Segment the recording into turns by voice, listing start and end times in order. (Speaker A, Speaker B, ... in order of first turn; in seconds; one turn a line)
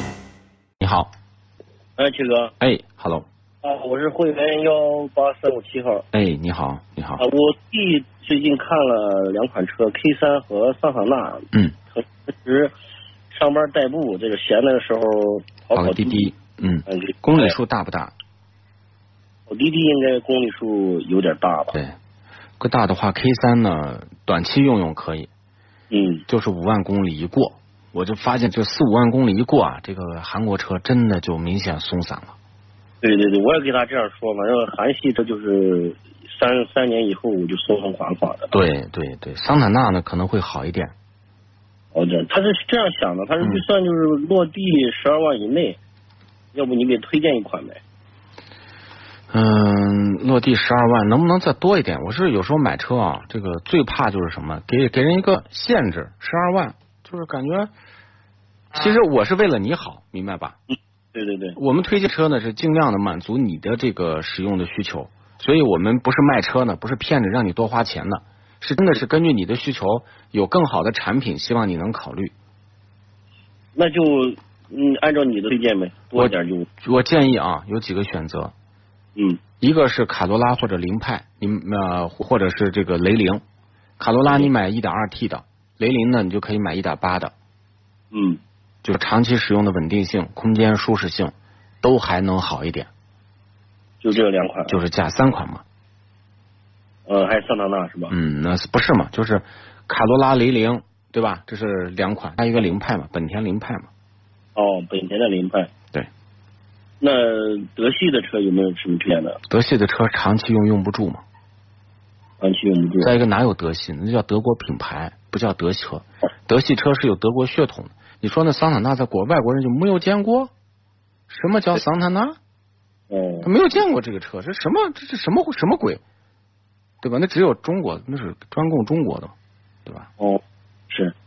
Speaker A: 0.8-1.1
Speaker B: 2.0-2.5
Speaker A: 2.6-3.3
Speaker B: 3.6-6.1
Speaker A: 6.1-7.2
Speaker B: 7.2-12.7
Speaker B: 13.3-16.3
Speaker A: 15.7-18.1
Speaker B: 16.9-17.6
Speaker B: 19.5-21.8
Speaker A: 22.6-25.3
Speaker B: 25.9-26.2
Speaker A: 26.3-32.4
Speaker B: 33.0-38.5
Speaker A: 38.5-40.9
Speaker B: 41.9-45.8
Speaker A: 43.4-43.6
Speaker B: 46.5-47.8
Speaker A: 49.3-57.7
Speaker A: 58.7-60.6
Speaker B: 61.1-61.6
Speaker A: 61.6-72.3
Speaker B: 73.8-76.7
Speaker A: 76.2-78.5
Speaker B: 79.2-79.4
Speaker A: 79.6-83.4
Speaker A: 84.0-87.3
Speaker B: 88.1-88.4
Speaker A: 88.8-92.9
Speaker B: 94.0-94.8
Speaker A: 94.7-95.6
Speaker B: 97.1-98.2
Speaker A: 98.1-103.9
Speaker B: 104.5-105.7
Speaker B: 107.0-109.4
Speaker A: 109.5-111.2
Speaker B: 112.4-113.2
Speaker A: 113.0-120.5
Speaker A: 121.3-122.4
Speaker B: 123.1-123.5
Speaker A: 123.4-126.0
Speaker A: 127.0-129.3
Speaker B: 130.2-131.1